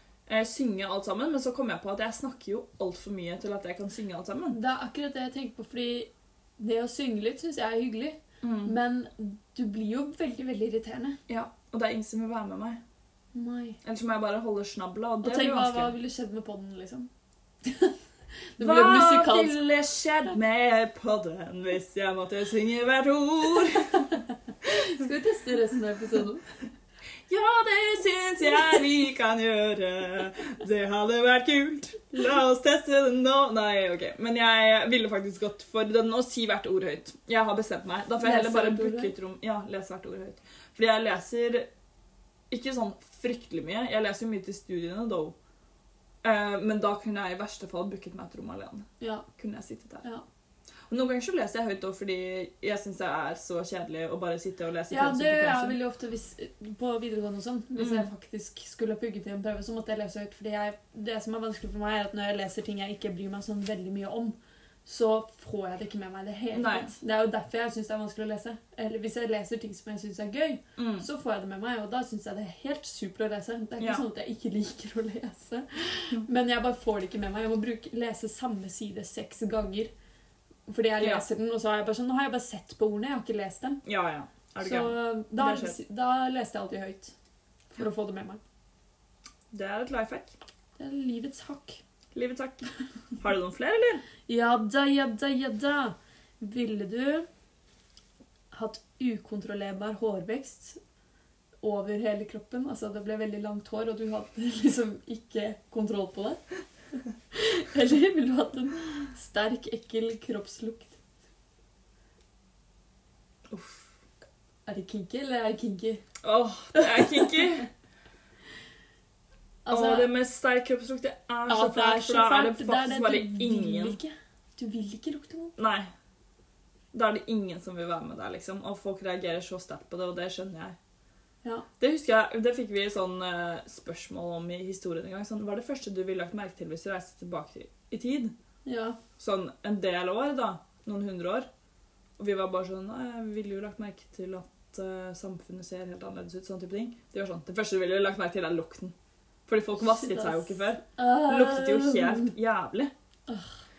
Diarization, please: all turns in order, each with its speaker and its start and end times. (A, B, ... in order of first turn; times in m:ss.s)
0:00.3-0:04.6 A
0:04.5-0:11.2 B
0:08.4-0:08.7 A
0:11.3-0:12.8 A
0:13.3-0:13.8 B
0:13.8-0:15.9 A
0:15.2-0:17.1 B
0:17.6-0:18.0 B
0:18.6-0:19.6 B
0:18.6-0:24.1 A
0:24.6-0:26.4 B
0:27.3-0:41.7 A
0:38.2-0:39.1 B
0:42.5-0:45.3 A
0:46.2-0:50.0 A
0:49.0-0:49.3 B
0:50.9-0:55.8 A
0:54.9-1:19.9 B
0:57.8-0:58.1 A
1:06.5-1:06.9 A
1:10.8-1:11.0 A
1:13.8-1:14.0 A
1:20.7-1:23.8 B
1:21.0-1:21.2 A
1:23.8-1:25.8 A
1:24.6-1:27.1 B
1:27.7-1:28.4 B
1:29.5-1:30.3 A
1:30.8-1:31.8 B
1:32.1-1:32.7 A
1:33.2-1:34.0 A
1:34.3-1:37.2 B
1:38.5-1:40.8 B
1:41.6-1:46.4 B
1:47.3-1:51.0 B
1:53.5-1:53.8 A
1:54.6-1:56.0 B
1:56.2-1:57.7 A
1:56.7-1:57.4 B
1:59.6-2:00.1 B
1:59.7-2:04.0 A
2:01.5-2:05.5 B
2:05.6-2:05.9 A
2:06.9-2:10.8 A
2:11.8-2:18.3 A
2:18.6-2:19.0 B
2:19.2-2:21.5 A
2:22.2-2:28.9 A
2:29.5-2:32.9 A
2:29.8-2:32.3 B
2:33.3-2:33.5 B